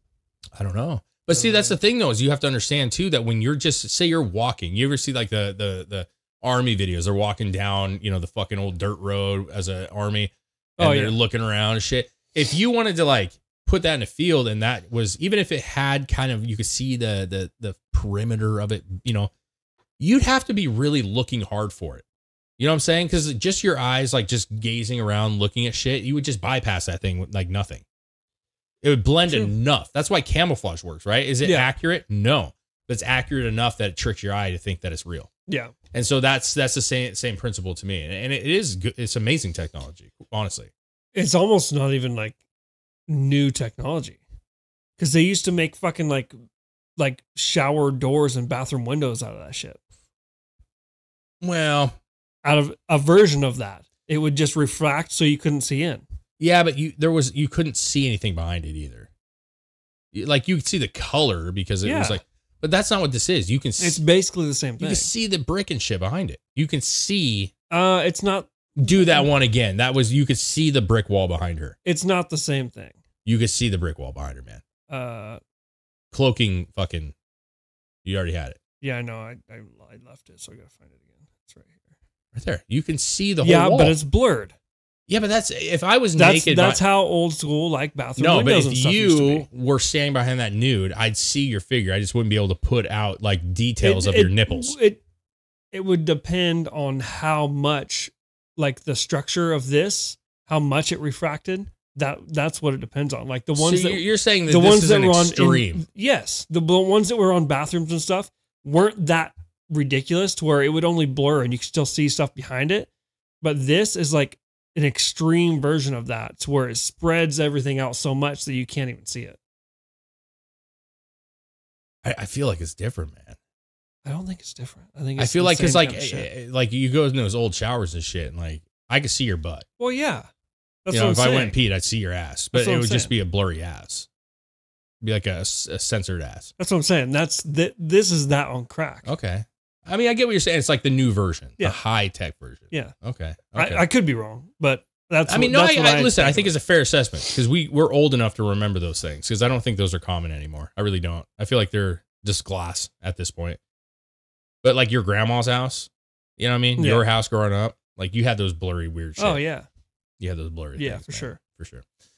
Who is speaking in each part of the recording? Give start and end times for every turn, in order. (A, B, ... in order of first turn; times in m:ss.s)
0:00.5-0:19.3 A
0:01.3-0:01.7 B
0:10.8-0:11.2 B
0:20.0-0:22.0 A
0:22.6-0:27.8 A
0:28.8-0:35.3 A
0:31.4-0:31.7 B
0:35.5-0:35.7 B
0:35.9-0:40.7 A
0:41.1-0:42.4 B
0:43.1-0:44.2 B
0:45.0-0:46.4 B
0:47.0-0:49.8 B
0:51.4-0:52.0 A
0:52.4-0:56.0 B
0:56.4-0:59.1 A
1:00.1-1:04.0 A
1:01.8-1:02.2 B
1:03.8-1:05.1 B
1:04.8-1:07.5 A
1:07.7-1:08.5 B
1:08.8-1:11.8 A
1:11.8-1:13.0 B
1:13.2-1:14.6 A
1:14.9-1:15.4 B
1:16.1-1:17.1 A
1:18.0-1:18.6 A
1:18.8-1:21.9 B
1:22.3-1:24.0 A
1:23.4-1:24.5 B
1:25.1-1:26.8 A
1:26.2-1:29.4 B
1:28.2-1:34.8 A
1:33.8-1:35.0 B
1:35.7-1:52.9 B
1:43.5-1:45.8 A
1:53.4-1:59.4 B
2:02.0-2:03.4 A
2:04.0-2:06.3 B
2:05.2-2:09.6 A
2:09.8-2:10.3 B
2:10.8-2:11.6 B
2:10.9-2:14.1 A
2:12.5-2:13.1 B
2:15.0-2:16.5 A
2:16.6-2:19.1 B
2:19.0-2:23.8 A
2:23.5-2:26.5 B
2:25.2-2:33.6 A
2:34.6-2:39.4 A
2:36.8-2:37.0 B
2:39.2-2:39.7 B
2:40.2-2:41.8 A
2:40.8-2:41.4 B